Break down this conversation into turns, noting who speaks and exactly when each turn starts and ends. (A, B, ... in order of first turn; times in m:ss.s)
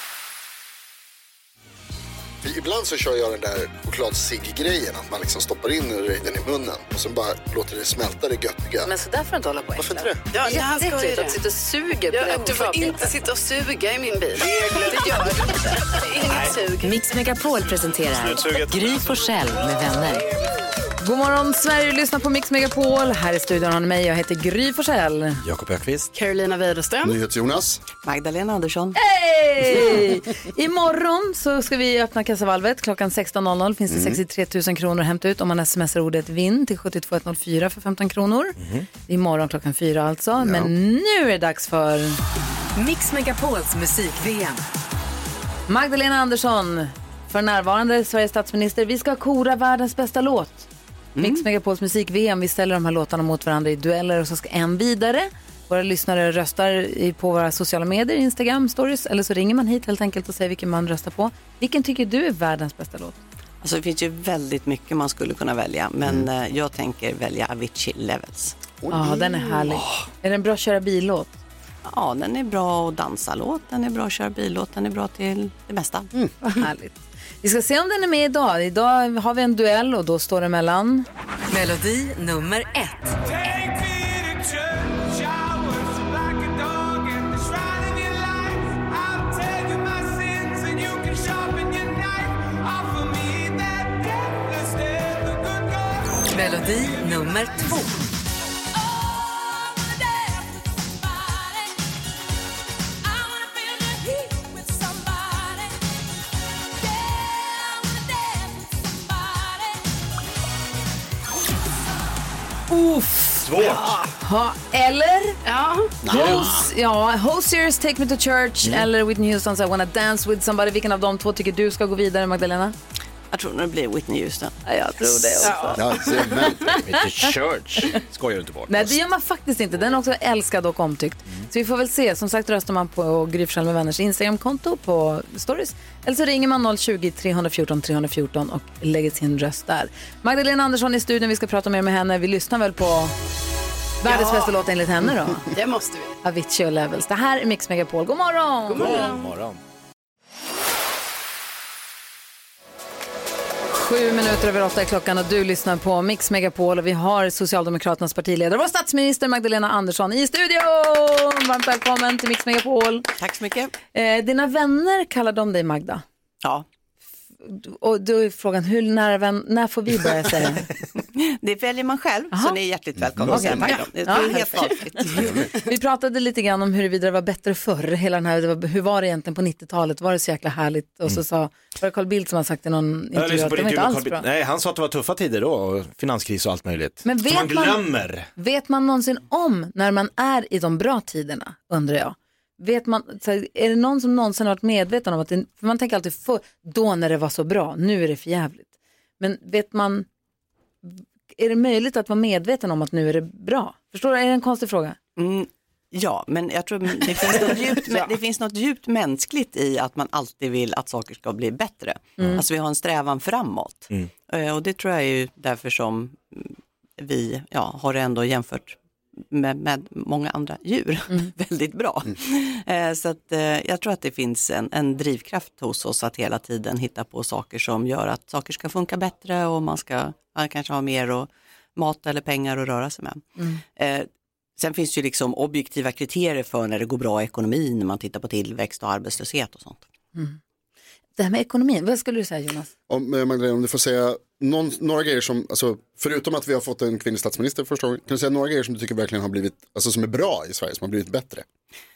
0:02.4-0:08.9 A
0:08.8-0:13.1 B
0:09.8-0:10.2 A
0:10.3-0:11.4 C
0:12.1-0:16.9 C
0:14.4-0:15.1 D
0:16.2-0:16.6 D
0:16.8-0:20.3 E
0:18.0-0:20.2 D
0:21.0-0:25.4 B
0:25.4-0:26.1 D
0:26.1-0:27.2 C
0:27.0-0:27.8 A
0:28.0-0:29.0 F
0:28.9-0:42.2 B
0:33.9-0:34.2 A
0:38.6-0:38.9 D
0:40.4-0:40.7 A
0:42.8-0:44.6 E
0:45.7-1:03.2 B
0:51.2-0:51.4 F
1:03.6-1:08.6 F
1:08.8-1:09.6 A
1:08.9-1:11.4 B
1:11.8-1:16.1 F
1:16.4-1:21.1 B
1:21.5-1:23.9 E
1:26.6-1:28.0 E
1:29.9-1:31.4 E
1:36.2-1:38.1 E
1:39.7-1:40.3 E
1:43.1-1:45.6 E
1:47.0-1:48.4 E
1:52.7-1:55.4 B
1:53.4-1:54.0 D
1:55.4-1:56.0 C
1:56.0-1:56.7 A
1:56.1-2:02.7 B
2:03.3-2:05.5 F
2:04.6-2:05.8 B
2:05.4-2:06.5 C
2:05.7-2:06.8 A
2:06.8-2:09.0 D
2:08.7-2:23.1 B
2:24.0-2:25.5 B
2:24.0-2:24.5 C
2:25.5-2:26.1 C
2:26.2-2:29.0 B
2:28.7-2:29.3 C
2:28.8-2:29.6 D
2:33.7-2:43.1 B
2:43.2-2:43.7 F
2:43.9-2:46.0 B
2:47.4-2:50.7 B
2:51.1-2:55.4 F
2:52.3-2:52.6 B
2:53.2-2:53.5 A
2:53.2-2:54.8 B
2:55.2-2:55.5 A
2:55.5-3:04.2 B
3:03.1-3:08.3 D
3:07.0-3:07.8 B
3:08.4-3:20.1 B
3:20.8-3:25.0 B
3:25.2-3:38.8 F
3:39.3-3:59.9 F
4:01.2-4:02.7 B
4:02.9-4:11.4 A